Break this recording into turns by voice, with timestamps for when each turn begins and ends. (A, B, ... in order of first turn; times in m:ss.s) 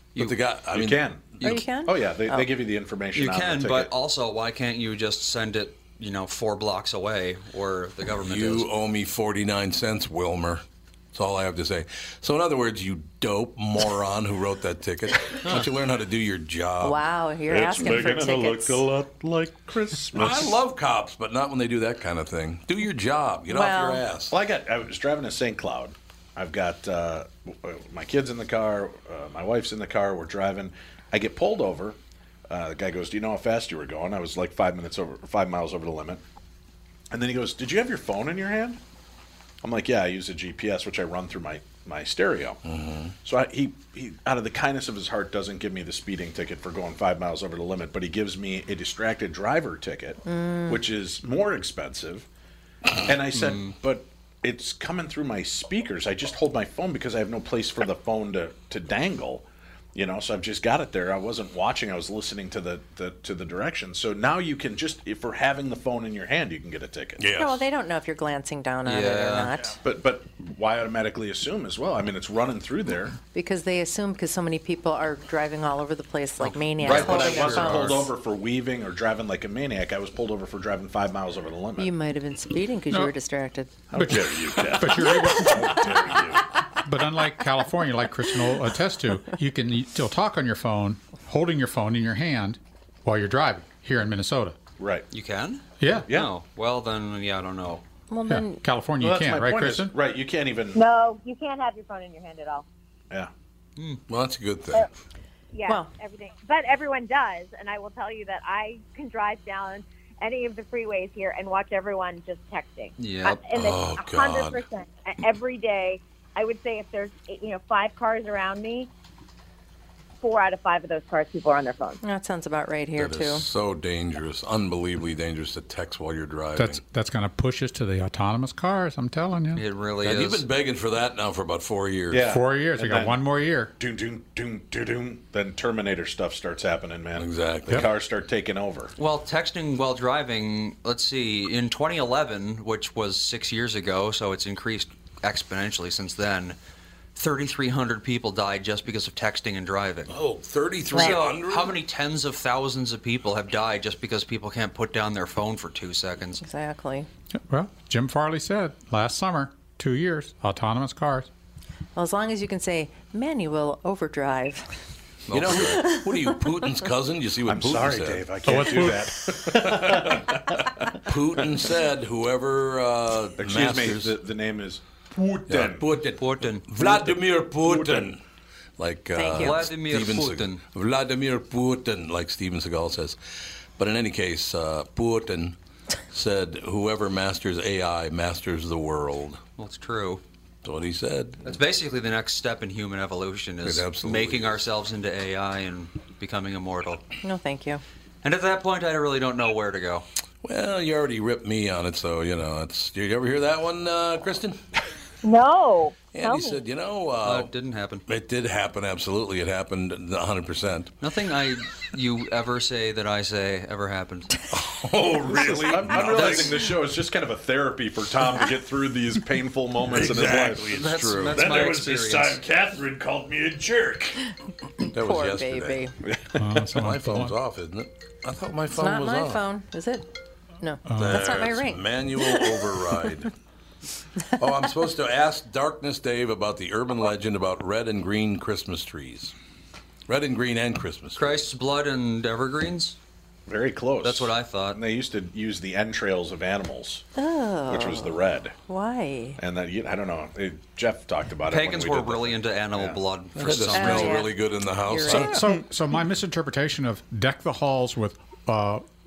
0:00.2-0:01.6 A
0:00.7-0:03.9 B
0:01.4-0:02.4 C
0:03.1-0:08.7 D
0:08.2-0:17.0 A
0:16.8-0:18.8 C
0:17.5-0:20.5 B
0:20.1-0:24.3 A
0:23.5-0:24.0 C
0:24.3-0:32.0 B
0:32.5-0:36.2 B
0:37.1-0:38.8 B
0:39.6-0:42.6 B
0:42.6-0:43.1 A
0:43.2-0:52.3 B
0:50.2-0:50.8 C
0:53.0-0:59.4 B
0:53.3-0:53.7 D
0:59.9-1:07.2 B
1:07.2-1:07.6 A
1:07.3-1:09.8 C
1:08.8-1:09.5 D
1:09.8-1:13.2 B
1:13.3-1:18.1 C
1:16.4-1:18.0 D
1:16.8-1:21.9 B
1:21.8-1:23.7 C
1:23.9-1:26.4 B
1:23.9-1:26.2 E
1:25.2-1:25.9 C
1:26.8-1:34.6 E
1:34.8-1:35.0 B
1:35.1-1:37.8 D
1:35.8-1:36.1 E
1:38.1-1:38.6 C
1:38.3-1:39.9 E
1:39.0-1:40.8 B
1:40.7-1:42.6 F
1:43.8-1:44.0 D
1:44.1-1:44.9 A
1:45.5-1:58.9 F
1:53.0-1:53.4 D
1:53.5-1:54.6 A
2:00.2-2:02.0 F
2:02.0-2:03.4 C
2:03.0-2:06.8 A
2:06.6-2:09.6 E
2:09.5-2:10.4 D
2:10.0-2:12.3 A
2:12.1-2:13.2 B
2:12.2-2:13.7 E
2:13.8-2:18.9 B
2:17.2-2:17.9 A
2:19.0-2:26.6 D
2:27.1-2:30.1 D
2:30.1-2:31.8 A
2:30.9-2:36.4 D
2:36.4-2:37.1 C
2:37.4-2:41.3 E
2:42.0-2:44.7 C
2:45.3-2:48.4 A
2:45.4-2:46.4 C
2:47.4-2:50.6 B
2:48.4-2:49.4 E
2:49.7-2:50.4 A
2:51.0-2:54.1 A
2:53.4-2:55.9 B
2:55.5-2:58.2 A
2:56.2-2:56.7 D
2:56.8-2:58.1 B
2:58.8-3:03.2 A
2:59.1-2:59.6 C
2:59.4-3:00.6 D
3:03.8-3:05.6 A
3:06.1-3:09.4 A
3:09.6-3:10.2 D
3:10.6-3:11.4 A
3:11.4-3:17.0 D
3:13.6-3:14.6 A
3:17.2-3:17.8 C
3:18.2-3:20.0 D
3:20.4-3:24.6 A
3:25.2-3:26.6 F
3:26.1-3:27.5 A
3:27.2-3:28.0 D
3:28.0-3:30.9 A
3:31.0-3:34.4 D
3:34.5-3:36.6 A
3:35.2-3:40.9 B
3:35.9-3:36.6 D
3:39.8-3:44.1 A
3:40.7-3:42.4 D
3:44.8-3:45.8 A
3:44.9-3:46.0 C
3:46.1-3:46.4 B
3:46.4-3:47.4 E
3:46.4-3:49.4 A
3:48.8-3:50.1 C
3:50.6-3:52.7 C
3:50.9-3:51.2 E
3:51.0-3:53.3 A
3:54.4-3:59.4 A
4:00.1-4:01.5 A
4:01.2-4:03.0 D
4:03.5-4:07.0 B
4:04.0-4:04.8 D
4:07.2-4:09.4 C
4:07.7-4:08.5 B
4:09.4-4:13.0 B
4:11.5-4:14.3 D
4:13.4-4:15.4 A
4:13.7-4:15.5 C
4:15.1-4:18.8 E